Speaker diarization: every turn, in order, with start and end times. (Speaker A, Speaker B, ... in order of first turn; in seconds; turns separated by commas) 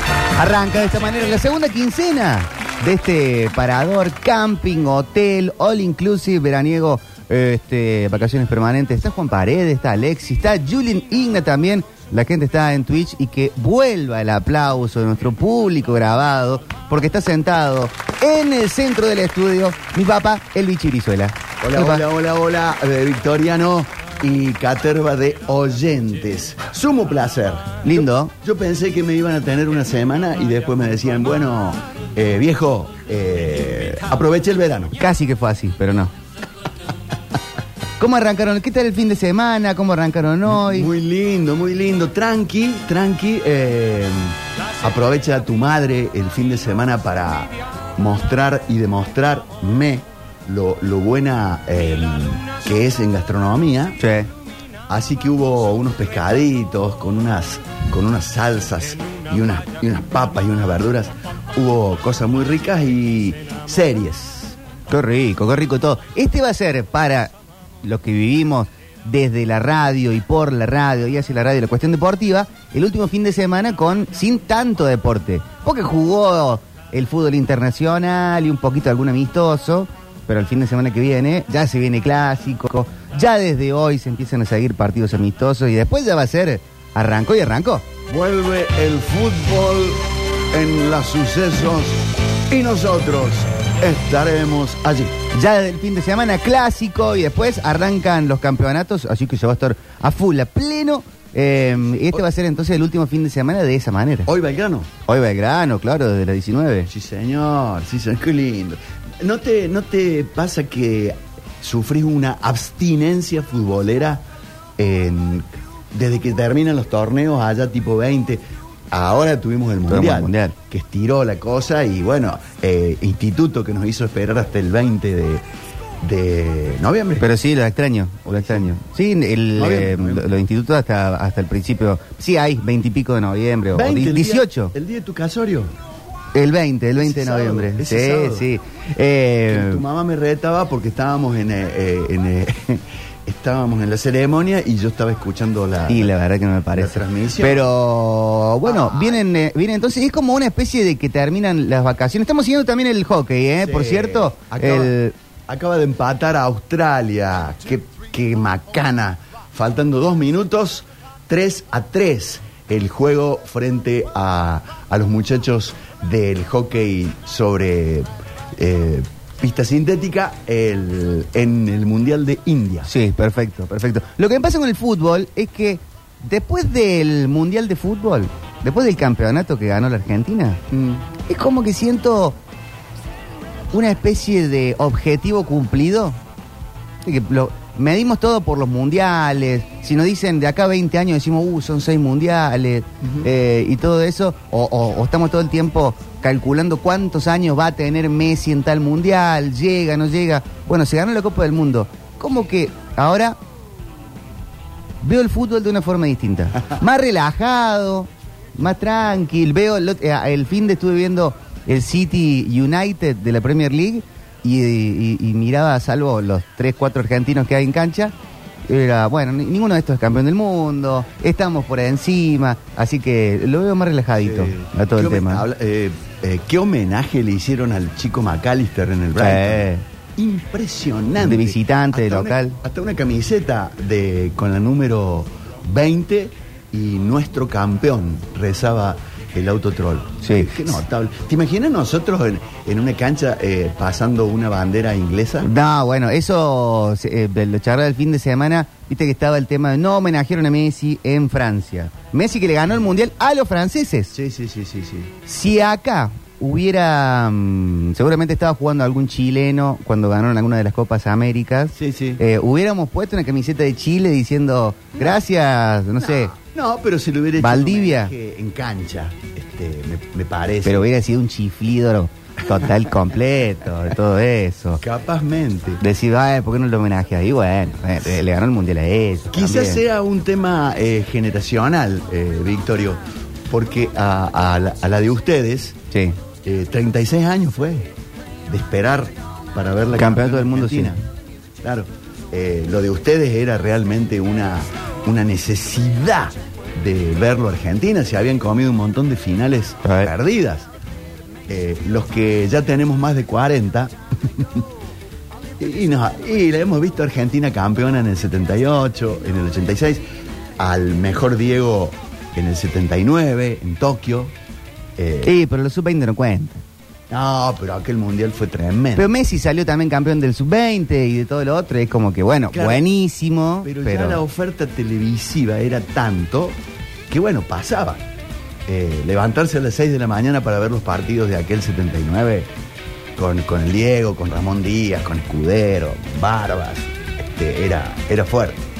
Speaker A: 0.3-22.0, Speaker B: 21.6-34.9, Speaker A: 27.8-28.3, Speaker A: 35.0-36.1, Speaker A: 38.0-40.9, Speaker B: 40.4-54.0, Speaker A: 54.0-54.3, Speaker B: 54.9-64.5, Speaker A: 64.9-87.9, Speaker B: 88.1-95.2, Speaker A: 95.3-104.3, Speaker B: 104.3-104.9, Speaker A: 105.1-106.9, Speaker B: 106.9-114.2, Speaker B: 114.8-125.4, Speaker A: 119.9-120.5, Speaker B: 126.0-127.3, Speaker A: 127.2-134.7, Speaker B: 128.3-128.7, Speaker B: 129.5-130.3, Speaker B: 133.7-135.7, Speaker A: 136.3-139.8, Speaker B: 137.0-138.5, Speaker B: 139.5-146.1, Speaker A: 145.9-155.1, Speaker B: 146.7-147.7, Speaker B: 148.6-149.2, Speaker B: 153.6-154.9, Speaker B: 155.5-172.9, Speaker A: 172.8-180.6, Speaker B: 180.7-181.0, Speaker A: 181.2-182.4, Speaker A: 183.7-186.2, Speaker A: 187.0-203.4, Speaker B: 193.0-193.3, Speaker A: 205.0-218.1, Speaker A: 218.7-225.4, Speaker B: 224.2-245.5, Speaker A: 229.2-229.8, Speaker A: 231.2-232.6, Speaker A: 240.2-240.8, Speaker A: 245.4-254.1, Speaker B: 254.1-255.1, Speaker A: 255.2-266.3, Speaker B: 261.8-262.2, Speaker B: 265.0-265.2, Speaker B: 266.0-270.9, Speaker A: 267.4-268.1, Speaker A: 270.6-274.8, Speaker B: 274.8-275.8, Speaker A: 275.8-279.8, Speaker B: 279.3-285.8, Speaker A: 285.9-286.2, Speaker B: 286.4-287.9, Speaker B: 288.5-291.0, Speaker A: 289.9-291.0, Speaker B: 291.6-300.7, Speaker A: 299.8-300.1, Speaker B: 301.5-304.6, Speaker B: 305.6-310.0, Speaker B: 310.6-314.3, Speaker B: 315.0-315.3, Speaker A: 315.2-316.6, Speaker B: 317.1-319.1, Speaker A: 318.9-324.2, Speaker B: 322.5-322.8, Speaker B: 323.6-326.6, Speaker B: 327.1-328.1, Speaker B: 328.7-332.5, Speaker B: 333.1-338.6